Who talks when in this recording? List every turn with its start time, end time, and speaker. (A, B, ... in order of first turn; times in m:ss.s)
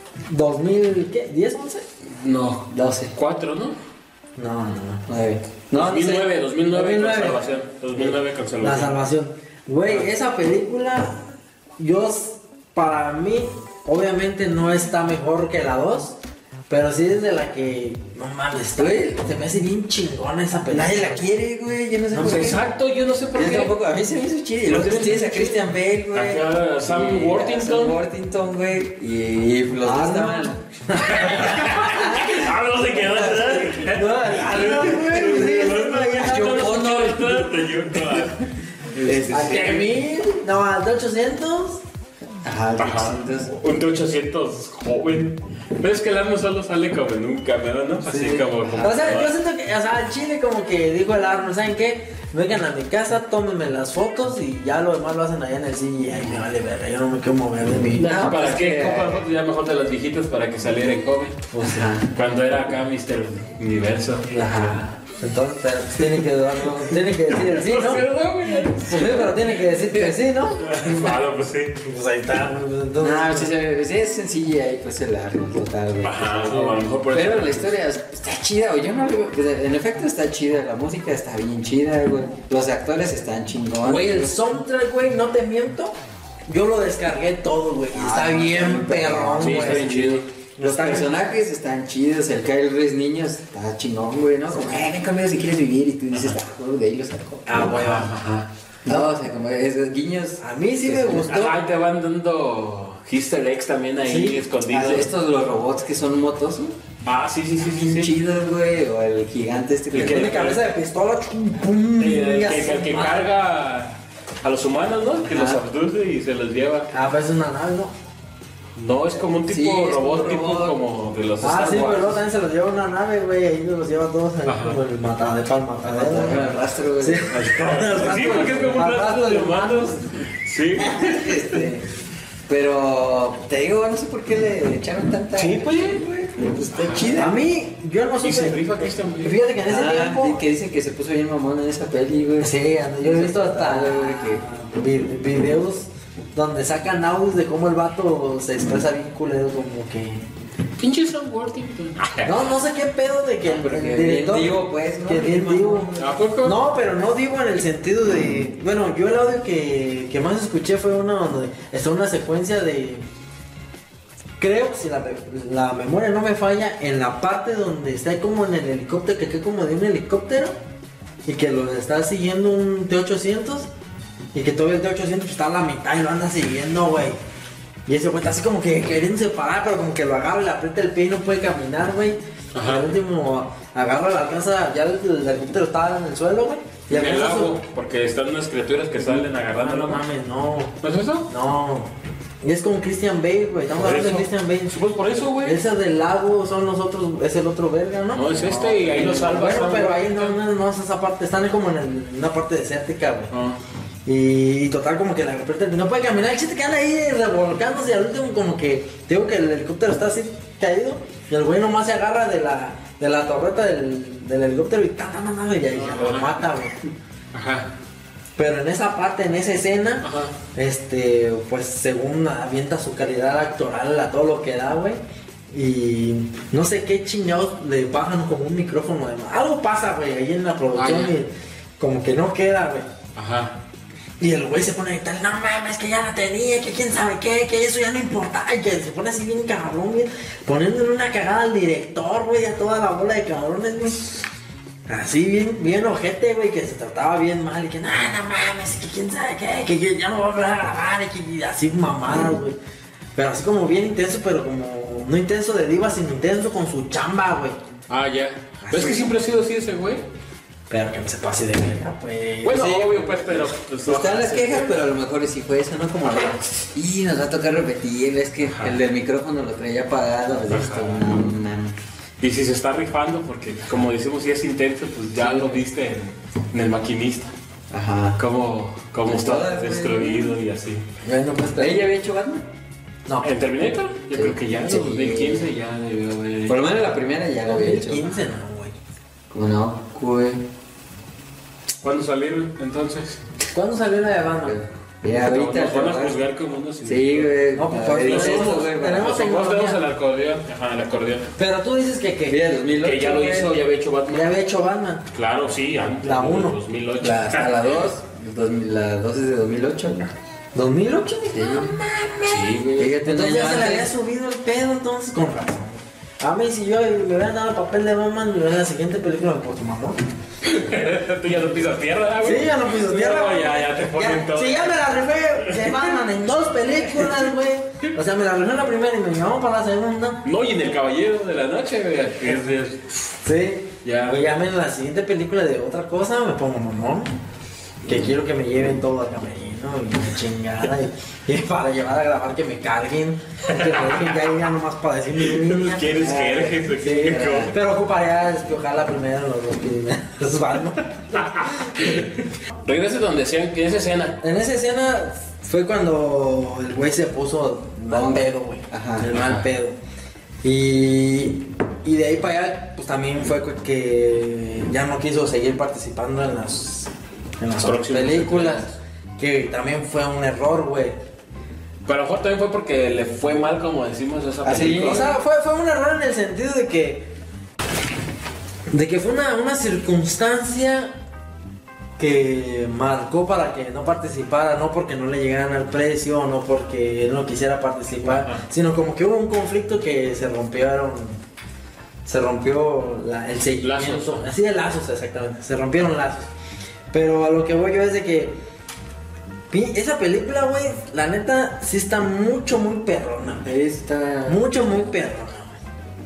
0:00.2-0:01.8 A
0:02.1-0:03.8 B
0:02.7-0:03.1 C
0:04.4-0:05.0 A
0:05.1-0:06.3 C
0:05.7-0:09.0 B
0:06.7-0:07.5 A
0:08.6-0:11.2 A
0:11.8-0:16.2 A
0:16.7-0:21.3 A
0:18.8-0:19.2 C
0:20.7-0:22.6 C
0:22.1-0:22.5 A
0:22.2-0:23.8 B
0:23.3-0:30.6 C
0:24.7-0:26.1 A
0:24.7-0:25.2 B
0:26.1-0:28.0 B
0:29.8-0:32.2 A
0:30.9-0:39.8 B
0:33.0-0:35.6 C
0:33.9-0:36.6 A
0:36.2-0:38.3 C
0:39.0-0:39.8 C
0:39.3-0:41.8 A
0:42.4-0:43.5 C
0:42.8-0:49.3 B
0:48.0-0:49.2 C
0:48.8-0:58.2 A
0:57.9-1:01.5 B
0:58.1-0:59.2 C
1:01.5-1:01.9 A
1:01.6-1:02.1 C
1:02.1-1:04.8 B
1:04.2-1:08.0 A
1:07.4-1:09.4 B
1:08.7-1:11.2 A
1:08.9-1:09.3 C
1:10.6-1:11.8 B
1:11.8-1:13.5 A
1:13.0-1:24.4 C
1:16.0-1:17.7 B
1:16.5-1:16.8 A
1:23.8-1:25.9 A
1:26.5-1:31.1 A
1:27.9-1:37.4 C
1:29.4-1:30.2 B
1:37.4-1:38.2 A
1:37.6-1:38.5 B
1:38.8-1:41.2 C
1:40.4-1:41.6 A
1:41.2-1:45.1 B
1:44.0-1:44.4 A
1:44.7-1:46.7 C
1:47.0-1:48.1 B
1:47.7-1:50.4 C
1:49.9-1:50.6 B
1:50.0-1:53.3 A
1:52.0-1:56.9 B
1:55.2-1:55.6 C
1:56.9-1:57.9 A
1:58.8-2:02.2 B
1:59.3-2:00.8 C
2:01.4-2:10.0 A
2:04.4-2:04.8 B
2:05.8-2:07.3 C
2:07.3-2:11.7 B
2:10.7-2:11.9 C
2:12.5-2:17.4 C
2:15.3-2:16.0 A
2:16.7-2:17.2 B
2:17.0-2:20.4 A
2:18.2-2:19.4 B
2:19.6-2:24.4 C
2:22.4-2:30.2 A
2:30.8-2:32.5 B
2:32.2-2:43.0 A
2:33.4-2:36.1 C
2:36.0-2:36.6 B
2:44.4-2:50.5 A
2:51.2-2:53.7 A
2:54.3-2:57.2 A
2:57.9-3:07.6 A
3:02.5-3:02.9 B
3:06.9-3:10.0 B
3:09.0-3:23.3 A
3:10.8-3:11.3 B
3:13.8-3:15.6 B
3:18.1-3:20.3 B
3:23.3-3:23.6 B
3:24.0-3:36.7 A
3:35.7-3:36.4 B
3:37.3-3:37.7 B
3:38.4-3:45.0 A
3:40.0-3:40.3 B
3:45.5-3:52.9 A
3:50.7-3:51.1 B
3:53.2-3:53.6 B
3:54.2-4:04.2 A
4:04.9-4:12.6 A
4:13.2-4:17.6 A
4:17.9-4:20.0 B
4:18.6-4:19.1 A
4:20.7-4:22.7 A
4:22.4-4:24.9 B
4:22.5-4:31.8 C
4:28.4-4:28.8 B
4:30.4-4:31.1 B
4:32.2-4:37.3 B
4:35.3-4:35.6 C
4:37.7-4:38.2 C
4:38.2-4:40.8 B
4:39.0-4:40.4 C
4:41.0-4:41.9 A
4:41.6-4:42.4 C
4:43.0-4:43.3 A
4:43.2-4:46.6 B
4:44.1-4:45.5 C
4:46.4-4:48.1 C
4:47.4-4:48.8 A
4:49.3-4:50.4 C
4:51.8-4:53.2 B
4:53.5-4:54.6 A
4:54.4-4:56.2 C
4:55.1-4:57.4 B
4:56.8-4:59.2 C
4:57.5-4:59.8 A
4:58.0-5:01.3 B
5:01.3-5:02.4 A
5:02.2-5:03.5 C
5:02.8-5:04.4 B
5:04.1-5:05.0 A
5:05.1-5:07.9 B
5:06.0-5:06.6 A
5:07.0-5:10.1 C
5:10.5-5:20.0 A
5:11.3-5:11.7 C
5:12.2-5:13.0 B
5:12.8-5:13.9 C
5:20.4-5:24.8 B
5:22.2-5:30.2 A
5:30.2-5:33.1 B
5:33.2-5:37.1 A
5:33.8-5:34.2 B
5:37.8-5:52.1 A
5:43.5-5:44.0 B
5:45.2-5:47.5 B
5:46.0-5:46.5 C
5:47.1-5:47.5 C
5:51.8-5:52.1 B
5:52.6-5:54.2 B
5:54.2-5:59.7 A
5:57.9-5:59.1 C
5:59.1-5:59.4 B
6:00.4-6:08.6 A
6:07.6-6:08.8 B
6:09.2-6:10.9 A
6:11.8-6:15.2 B
6:14.4-6:15.1 C
6:14.8-6:17.1 A
6:18.7-6:20.9 A
6:22.0-6:31.2 A
6:28.0-6:28.4 B
6:32.0-6:36.3 A
6:33.6-6:34.3 B
6:36.9-6:38.3 A
6:39.5-6:43.6 A
6:43.4-6:44.4 C
6:44.2-6:45.6 A